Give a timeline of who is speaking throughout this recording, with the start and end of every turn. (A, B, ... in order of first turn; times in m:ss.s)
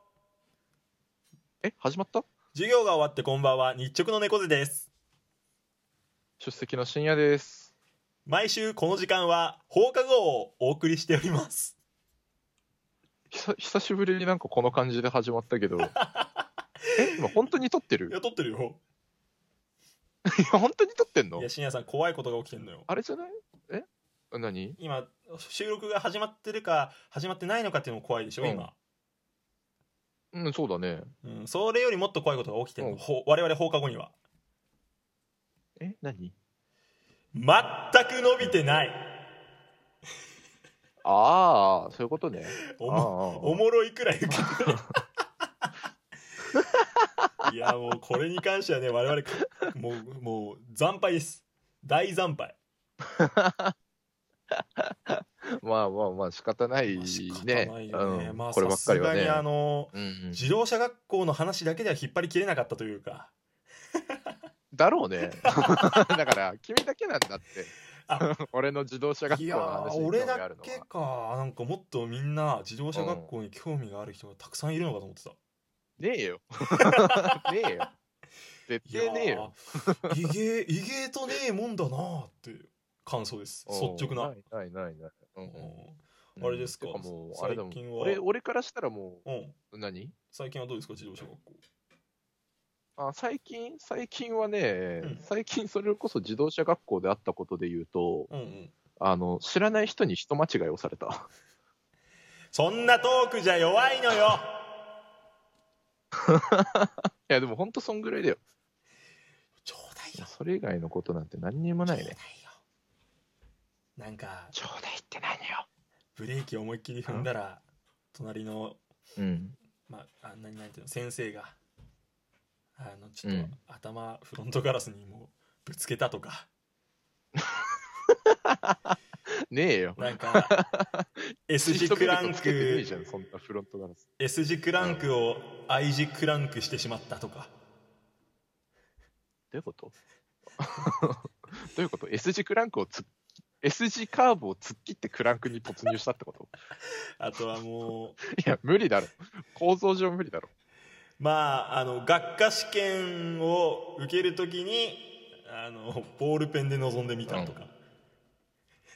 0:01.6-0:02.3 A
0:02.5-0:04.9 B
0:06.4-0:07.7 A
0:08.3-0:11.8 B
0:13.3-0:15.9 A
0:15.8-0:17.2 B
0:17.0-0:18.1 A
0:18.1-0:18.8 B
0:20.3-0:21.5 A
0:21.4-0:22.9 B
0:22.9-0:24.8 A
0:24.8-0:28.8 B
0:28.4-0:28.7 A
0:30.3-0:31.1 A
0:31.2-0:34.1 B
0:35.8-0:36.3 A
0:37.3-0:39.1 B
0:41.0-0:43.6 A
0:42.6-0:44.8 B
0:46.5-0:46.8 A
0:47.4-0:52.6 B
0:53.0-0:53.7 A
0:54.5-1:00.4 A
0:56.9-1:03.3 B
1:04.1-1:04.4 B
1:04.7-1:10.9 A
1:05.3-1:06.0 B
1:08.0-1:08.3 B
1:09.3-1:15.4 B
1:12.9-1:13.3 A
1:16.0-1:17.9 A
1:16.8-1:17.9 B
1:18.7-1:20.1 A
1:18.8-1:24.3 B
1:23.7-1:25.7 A
1:25.4-1:28.2 B
1:26.4-1:30.2 A
1:29.2-1:29.6 B
1:30.3-1:31.6 B
1:33.0-1:38.3 A
1:38.3-1:38.7 B
1:39.0-1:41.3 A
1:42.5-1:44.6 B
1:46.2-1:48.4 A
1:49.6-1:50.3 B
1:50.2-1:52.2 A
1:51.8-1:52.6 B
1:54.0-1:54.6 B
1:54.5-1:55.7 A
1:56.2-1:58.8 B
1:59.2-1:59.6 A
1:59.9-2:01.6 B
2:02.8-2:06.5 B
2:03.2-2:03.6 A
2:08.1-2:09.0 A
2:09.5-2:11.1 A
2:10.0-2:10.6 B
2:11.5-2:12.8 B
2:11.6-2:14.0 A
2:14.2-2:17.5 B
2:14.8-2:15.0 A
2:19.5-2:19.9 A
2:20.6-2:23.1 A
2:23.6-2:26.5 A
2:27.2-2:28.2 B
2:28.3-2:30.5 A
2:31.2-2:37.7 B
2:37.2-2:37.6 A